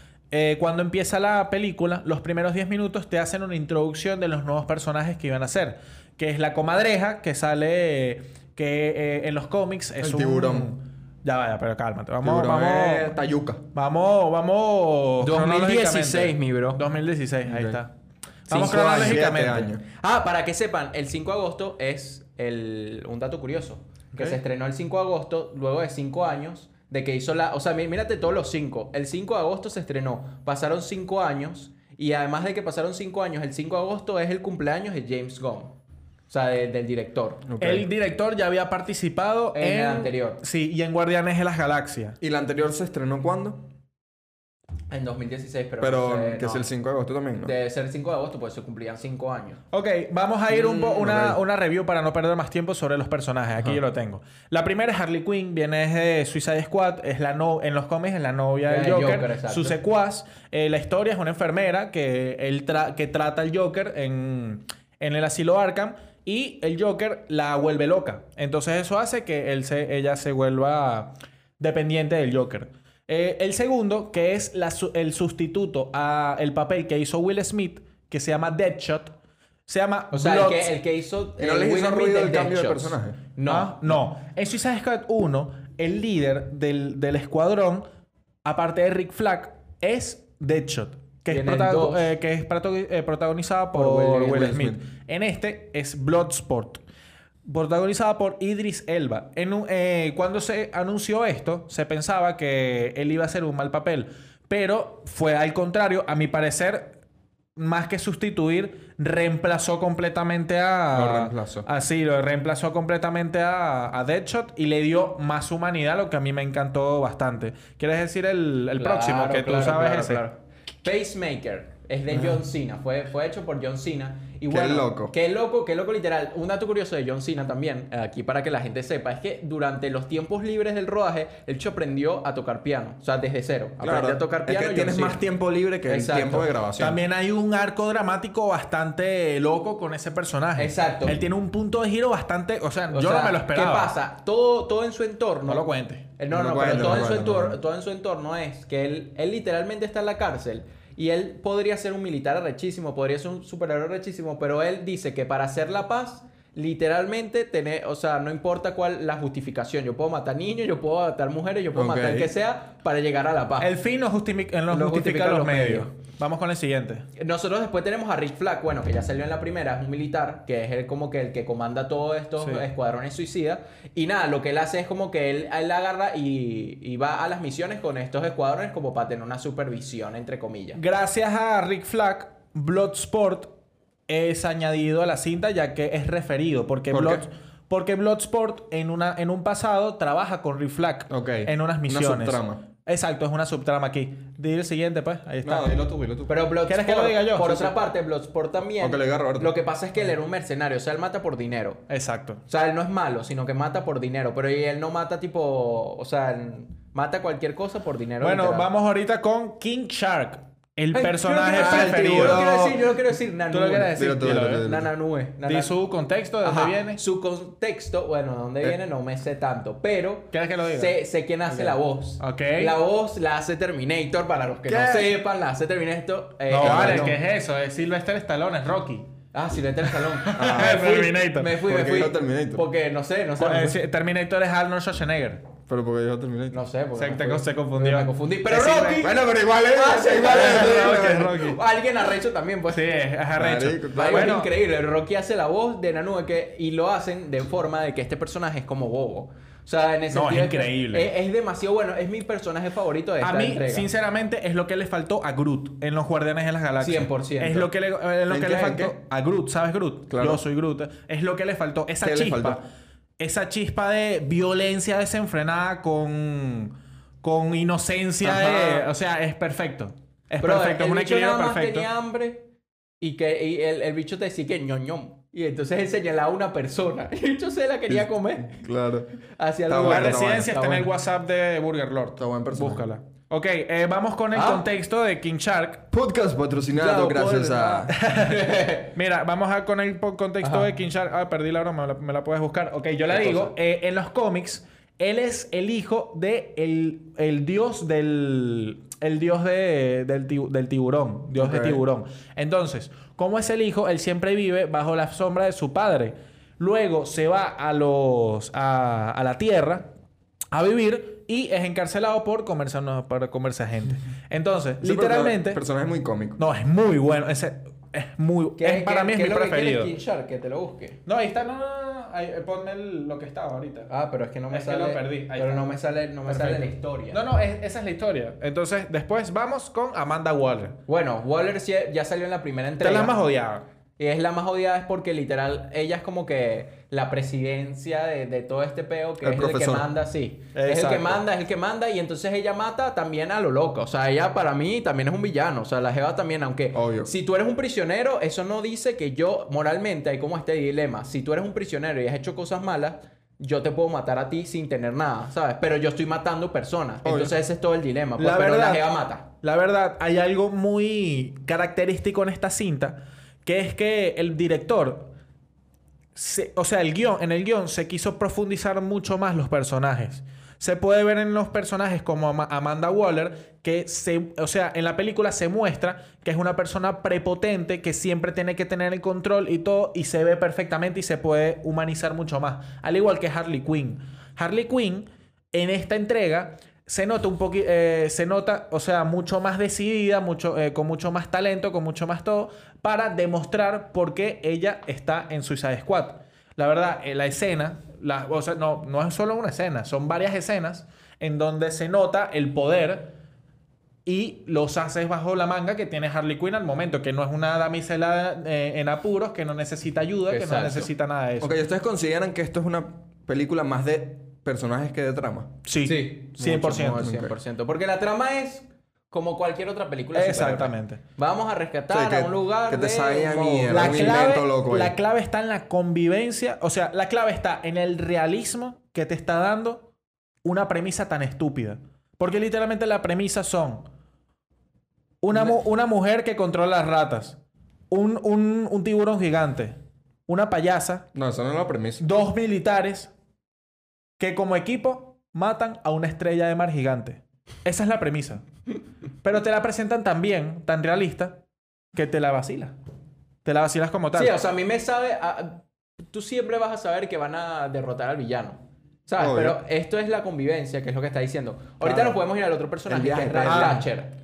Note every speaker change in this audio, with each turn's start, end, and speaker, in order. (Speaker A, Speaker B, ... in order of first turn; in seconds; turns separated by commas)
Speaker A: 0.3-13.2, Speaker B: 10.0-10.7, Speaker B: 12.2-13.7, Speaker A: 13.7-17.9, Speaker C: 15.2-16.8, Speaker B: 17.5-17.8, Speaker A: 18.5-19.7, Speaker C: 18.5-19.2, Speaker B: 18.5-19.9, Speaker C: 19.9-35.8, Speaker C: 36.3-37.5, Speaker B: 37.5-37.9, Speaker A: 37.6-42.2, Speaker C: 39.5-40.4, Speaker B: 42.2-43.6, Speaker C: 44.9-46.7, Speaker B: 45.8-47.5, Speaker C: 47.4-49.6, Speaker A: 49.7-80.7, Speaker B: 50.5-51.4, Speaker C: 58.7-59.8, Speaker C: 80.1-83.8, Speaker B: 81.4-83.2, Speaker A: 83.5-87.9, Speaker A: 88.5-96.8, Speaker C: 91.3-92.1, Speaker C: 93.8-94.6, Speaker B: 94.2-94.8, Speaker A: 97.5-107.0, Speaker A: 107.6-120.2, Speaker B: 110.9-111.7, Speaker C: 118.8-135.2, Speaker B: 122.1-122.4, Speaker B: 124.5-125.1, Speaker B: 133.8-137.0, Speaker C: 135.9-136.5, Speaker A: 136.8-143.9, Speaker C: 140.6-141.2, Speaker C: 142.9-163.7, Speaker A: 145.5-146.1, Speaker B: 146.3-147.6, Speaker B: 161.7-162.3, Speaker A: 163.6-167.1, Speaker C: 164.7-165.9, Speaker C: 167.2-180.8, Speaker A: 172.4-172.7, Speaker A: 180.8-183.5, Speaker A: 184.1-195.8, Speaker B: 186.9-187.3, Speaker B: 191.1-192.7, Speaker B: 195.4-196.3, Speaker C: 196.3-201.8, Speaker A: 196.7-197.7, Speaker B: 198.8-199.5, Speaker A: 201.9-202.4, Speaker C: 202.5-208.7, Speaker A: 208.2-212.5, Speaker C: 210.9-215.8, Speaker B: 211.5-212.8, Speaker A: 213.5-214.7, Speaker B: 213.9-214.9, Speaker A: 215.4-217.0, Speaker C: 216.4-227.2, Speaker A: 220.3-221.0, Speaker A: 221.5-222.8, Speaker B: 224.7-225.1, Speaker A: 226.5-229.1, Speaker B: 226.6-227.2, Speaker C: 229.3-233.8, Speaker A: 229.9-231.5, Speaker B: 230.3-232.7, Speaker A: 233.4-235.4, Speaker B: 235.7-236.6, Speaker C: 236.5-243.0, Speaker A: 237.0-239.1, Speaker B: 239.0-241.4, Speaker A: 240.1-241.6, Speaker A: 242.7-244.5, Speaker B: 243.4-244.4, Speaker C: 243.9-253.9, Speaker A: 250.1-251.1, Speaker A: 253.2-262.6, Speaker C: 256.8-257.7, Speaker B: 258.3-258.9, Speaker B: 260.1-260.4, Speaker B: 262.0-262.6, Speaker A: 263.2-271.9, Speaker B: 268.3-268.8, Speaker C: 270.4-272.5, Speaker C: 273.0-278.6, Speaker B: 277.9-279.1, Speaker C: 279.4-280.9, Speaker B: 279.7-280.5, Speaker A: 279.8-285.9, Speaker B: 282.2-282.9, Speaker C: 284.3-284.7, Speaker B: 285.9-287.9, Speaker C: 286.9-287.3, Speaker A: 287.0-309.9, Speaker C: 288.1-288.9, Speaker C: 290.4-290.7, Speaker B: 301.4-301.8, Speaker A: 310.5-315.6, Speaker B: 314.8-316.4, Speaker A: 316.4-319.9, Speaker C: 318.6-321.0, Speaker A: 321.1-323.9, Speaker C: 323.9-327.2, Speaker A: 324.5-325.7, Speaker A: 326.3-330.8, Speaker C: 330.9-333.2, Speaker A: 332.8-333.6, Speaker C: 334.0-359.3, Speaker B: 339.2-339.9, Speaker A: 340.5-341.2, Speaker B: 346.7-347.1, Speaker B: 357.0-357.4, Speaker A: 358.2-358.9, Speaker A: 359.4-365.1, Speaker A: 366.1-403.1, Speaker A: 404.1-411.6, Speaker C: 410.3-410.9, Speaker B: 411.4-415.6, Speaker A: 415.7-417.1, Speaker C: 415.8-424.2, Speaker B: 416.8-417.3, Speaker A: 420.1-421.0, Speaker B: 421.9-425.0, Speaker A: 423.7-429.9, Speaker A: 430.4-433.9, Speaker A: 435.2-437.4, Speaker A: 437.9-441.1, Speaker B: 441.1-442.0, Speaker A: 442.0-443.1, Speaker A: 444.2-448.4, Speaker A: 449.2-451.4, Speaker A: 451.9-452.8, Speaker A: 453.4-454.4, Speaker C: 454.1-464.1, Speaker B: 459.2-459.6, Speaker B: 461.8-462.2, Speaker B: 462.9-463.9, Speaker A: 463.4-463.9